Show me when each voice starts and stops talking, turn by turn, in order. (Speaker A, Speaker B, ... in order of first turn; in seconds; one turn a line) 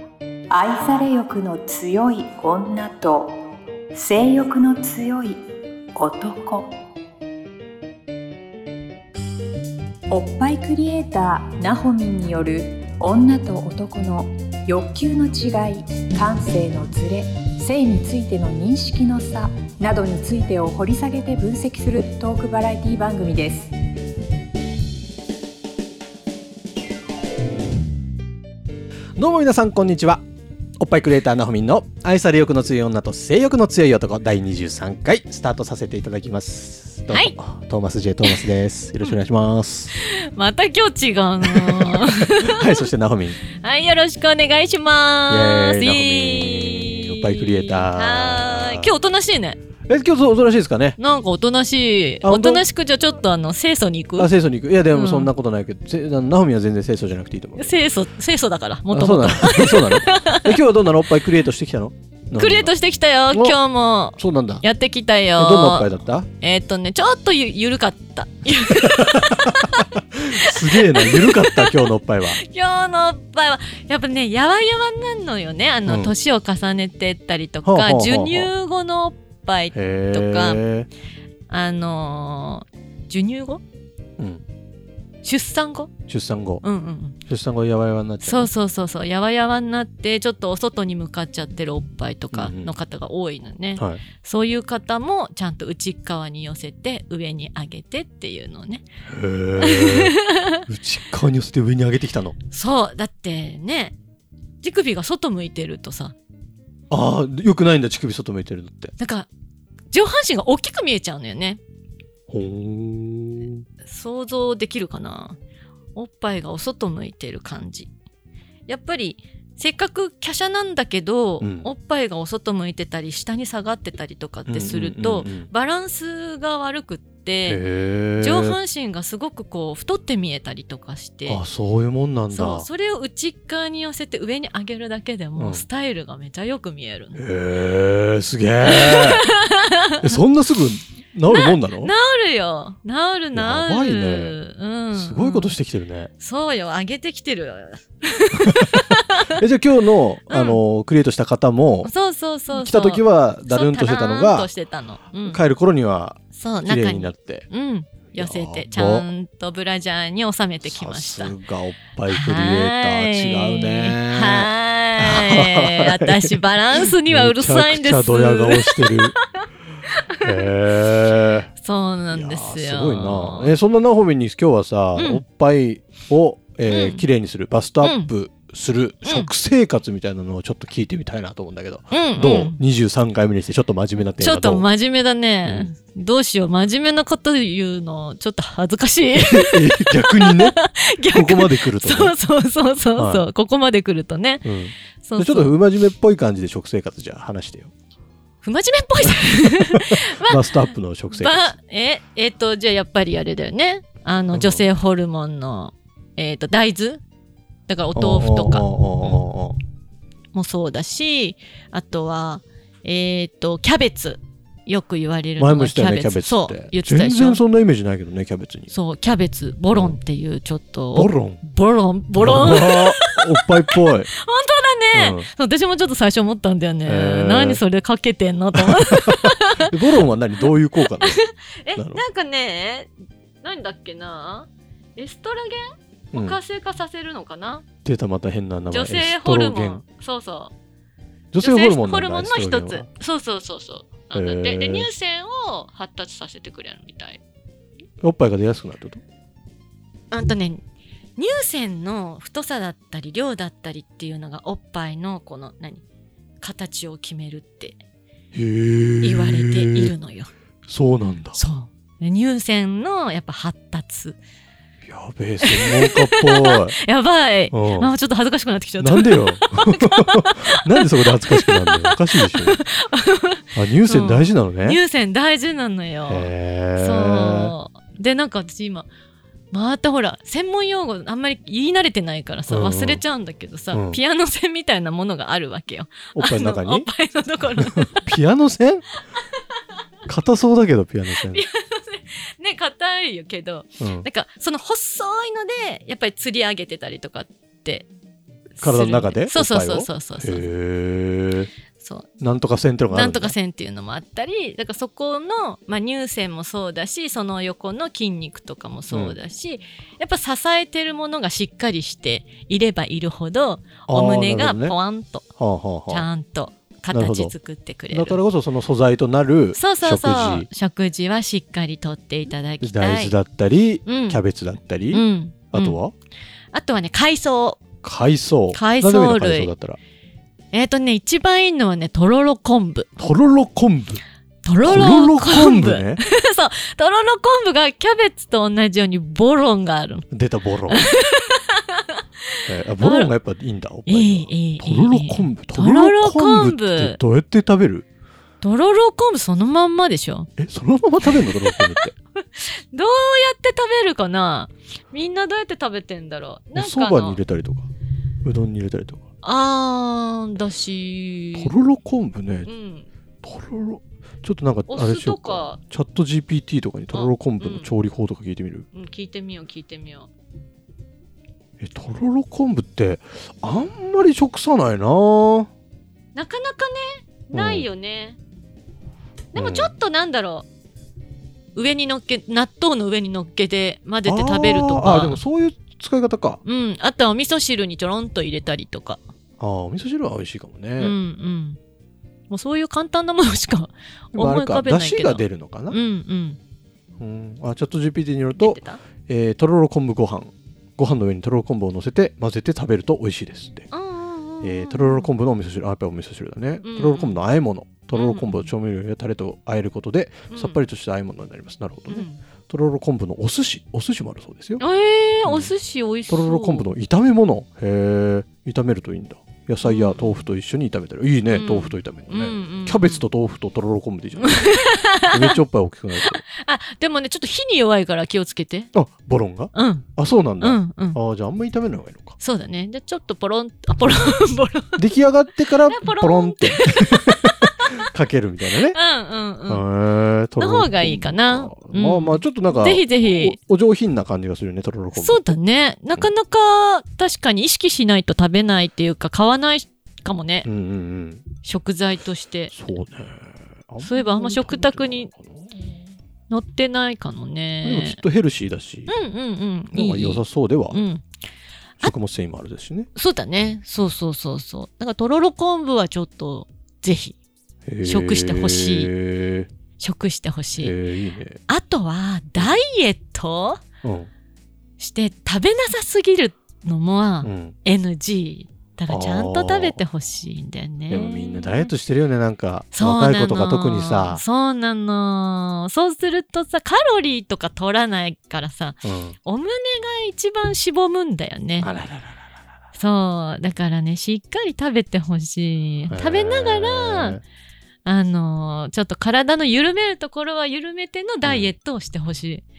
Speaker A: 0.5-3.4
Speaker A: 3.9-5.4
Speaker A: 5.9-6.7
Speaker A: 10.1-23.7
Speaker B: 29.2-30.2
Speaker B: 30.8-40.0
Speaker C: 37.1-37.4
Speaker C: 40.0-42.9
Speaker B: 41.4-43.4
Speaker C: 43.5-49.6
Speaker B: 45.3-48.9
Speaker B: 49.9-51.0
Speaker C: 51.0-54.3
Speaker B: 52.2-52.6
Speaker B: 54.2-57.7
Speaker C: 54.9-55.3
Speaker C: 57.6-60.5
Speaker B: 58.9-62.7
Speaker C: 62.4-65.9
Speaker B: 63.3-63.6
Speaker B: 64.2-64.6
Speaker B: 65.4-66.3
Speaker C: 66.4-80.6
Speaker B: 68.7-72.4
Speaker B: 75.8-76.1
Speaker B: 77.6-78.5
Speaker B: 79.7-80.9
Speaker C: 81.5-83.6
Speaker B: 84.2-84.4
Speaker C: 85.2-85.9
Speaker B: 86.1-86.6
Speaker C: 86.6-87.2
Speaker B: 87.2-88.5
Speaker C: 88.2-98.8
Speaker B: 92.3-92.7
Speaker B: 99.1-102.3
Speaker C: 99.6-100.6
Speaker C: 102.5-104.0
Speaker C: 104.6-106.1
Speaker B: 106.9-108.9
Speaker C: 109.0-109.3
Speaker C: 109.9-111.6
Speaker B: 112.3-113.6
Speaker C: 113.8-115.4
Speaker C: 115.9-117.9
Speaker C: 118.7-127.6
Speaker B: 121.4-121.7
Speaker B: 124.5-125.5
Speaker B: 127.5-128.6
Speaker C: 128.2-131.4
Speaker B: 131.3-132.7
Speaker C: 132.3-137.2
Speaker B: 135.3-135.7
Speaker B: 137.2-139.2
Speaker C: 138.6-140.2
Speaker B: 140.0-141.9
Speaker C: 141.3-145.5
Speaker B: 143.3-144.4
Speaker B: 144.9-146.1
Speaker C: 146.2-149.4
Speaker B: 148.4-151.9
Speaker C: 150.3-150.6
Speaker C: 151.8-155.4
Speaker B: 152.5-154.5
Speaker B: 155.2-157.5
Speaker C: 156.3-161.3
Speaker B: 158.1-159.1
Speaker B: 160.6-169.1
Speaker C: 162.1-169.4
Speaker C: 170.0-170.5
Speaker B: 170.2-171.5
Speaker C: 171.6-173.5
Speaker B: 172.1-184.7
Speaker C: 174.9-175.2
Speaker C: 176.7-177.0
Speaker C: 177.8-178.1
Speaker C: 179.0-179.3
Speaker C: 181.9-182.6
Speaker C: 184.2-194.4
Speaker B: 185.4-185.7
Speaker B: 189.1-190.6
Speaker B: 191.1-192.1
Speaker B: 193.0-193.2
Speaker B: 194.4-197.7
Speaker C: 195.0-195.5
Speaker C: 198.4-200.6
Speaker B: 199.0-201.5
Speaker C: 201.1-207.0
Speaker B: 204.3-204.6
Speaker C: 207.7-209.2
Speaker B: 207.9-209.6
Speaker C: 210.3-217.4
Speaker B: 215.4-218.7
Speaker C: 218.7-232.9
Speaker B: 219.7-220.0
Speaker B: 220.9-221.4
Speaker B: 222.2-224.1
Speaker B: 224.9-225.3
Speaker B: 226.8-227.6
Speaker B: 228.5-231.2
Speaker B: 231.7-232.0
Speaker C: 233.4-237.6
Speaker B: 237.8-239.8
Speaker C: 238.7-240.5
Speaker B: 241.3-242.9
Speaker C: 241.4-247.2
Speaker B: 244.1-244.9
Speaker B: 248.0-249.0
Speaker C: 250.1-250.6
Speaker C: 251.2-255.8
Speaker C: 256.4-257.8
Speaker B: 258.3-259.9
Speaker C: 259.0-260.3
Speaker B: 260.7-261.4
Speaker C: 261.3-264.2
Speaker B: 264.8-266.8
Speaker C: 265.4-278.9
Speaker B: 267.5-267.9
Speaker B: 268.8-272.6
Speaker B: 273.5-274.8
Speaker B: 276.1-277.5
Speaker C: 279.5-288.0
Speaker B: 282.5-283.0
Speaker B: 283.7-284.0
Speaker B: 286.1-286.9
Speaker B: 287.6-288.8
Speaker B: 290.1-291.4
Speaker C: 291.2-297.9
Speaker B: 293.8-294.1
Speaker C: 298.6-300.5
Speaker B: 298.6-301.5
Speaker C: 301.8-302.1
Speaker B: 302.2-303.3
Speaker C: 302.9-315.2
Speaker B: 308.9-309.2
Speaker B: 313.9-314.8
Speaker B: 315.4-316.1
Speaker C: 315.9-318.2
Speaker B: 316.9-317.3
Speaker B: 317.9-320.5
Speaker C: 319.6-323.1
Speaker B: 322.6-325.9
Speaker C: 323.9-324.2
Speaker C: 324.9-325.8
Speaker C: 326.5-327.6
Speaker B: 327.8-329.8
Speaker C: 328.5-329.5
Speaker C: 330.5-332.9
Speaker B: 333.0-334.0
Speaker C: 334.4-340.1
Speaker B: 334.6-336.0
Speaker B: 340.1-340.9
Speaker C: 340.7-342.0
Speaker B: 342.4-347.9
Speaker C: 342.8-343.1
Speaker C: 343.9-347.0
Speaker C: 348.4-350.3
Speaker B: 350.4-351.9
Speaker C: 351.0-357.2
Speaker B: 356.5-357.7
Speaker B: 358.2-359.0
Speaker C: 359.2-361.5
Speaker B: 361.3-362.5
Speaker C: 362.4-362.9
Speaker B: 363.2-368.6
Speaker C: 364.7-365.6
Speaker C: 366.9-367.7
Speaker C: 368.7-370.1
Speaker B: 371.6-375.5
Speaker C: 376.1-378.2
Speaker B: 377.3-377.6
Speaker C: 379.3-380.5
Speaker B: 379.3-379.7
Speaker C: 381.5-385.2
Speaker B: 384.0-386.4
Speaker C: 386.4-389.0
Speaker B: 389.4-390.9
Speaker C: 390.8-391.6
Speaker C: 392.3-396.4
Speaker B: 394.1-395.8
Speaker B: 397.0-403.7
Speaker C: 398.4-398.8
Speaker C: 403.7-405.1
Speaker B: 404.4-414.6
Speaker C: 406.6-407.2
Speaker C: 407.9-408.5
Speaker C: 410.3-410.6
Speaker C: 411.9-412.2
Speaker C: 414.6-416.7
Speaker B: 415.2-415.5
Speaker B: 416.1-424.5
Speaker C: 419.6-420.2
Speaker C: 421.3-423.0
Speaker C: 424.2-425.4
Speaker B: 425.1-426.2
Speaker C: 426.0-428.7
Speaker B: 428.7-432.2
Speaker C: 429.5-429.9
Speaker C: 430.4-431.0
Speaker C: 432.2-434.8
Speaker B: 434.8-438.8
Speaker C: 435.6-437.8
Speaker C: 438.7-439.6
Speaker B: 439.4-445.3
Speaker C: 440.4-443.4
Speaker C: 444.9-450.5
Speaker B: 450.4-451.2
Speaker C: 451.4-452.5
Speaker B: 452.5-455.8
Speaker C: 453.8-455.1
Speaker C: 456.3-458.0
Speaker B: 457.6-458.9
Speaker C: 458.9-461.0
Speaker B: 459.7-460.8
Speaker B: 461.8-462.9
Speaker C: 462.9-467.2
Speaker B: 467.7-469.5
Speaker C: 467.8-468.9
Speaker C: 469.8-470.8
Speaker B: 470.6-471.4
Speaker C: 471.5-473.6
Speaker B: 473.8-474.1
Speaker C: 474.8-481.7
Speaker B: 477.2-477.6
Speaker B: 478.9-479.8
Speaker B: 480.9-484.2
Speaker C: 482.7-491.7
Speaker B: 488.8-489.2
Speaker B: 491.6-492.3
Speaker C: 492.7-497.2
Speaker B: 495.9-497.2
Speaker C: 497.8-502.4
Speaker B: 501.2-501.5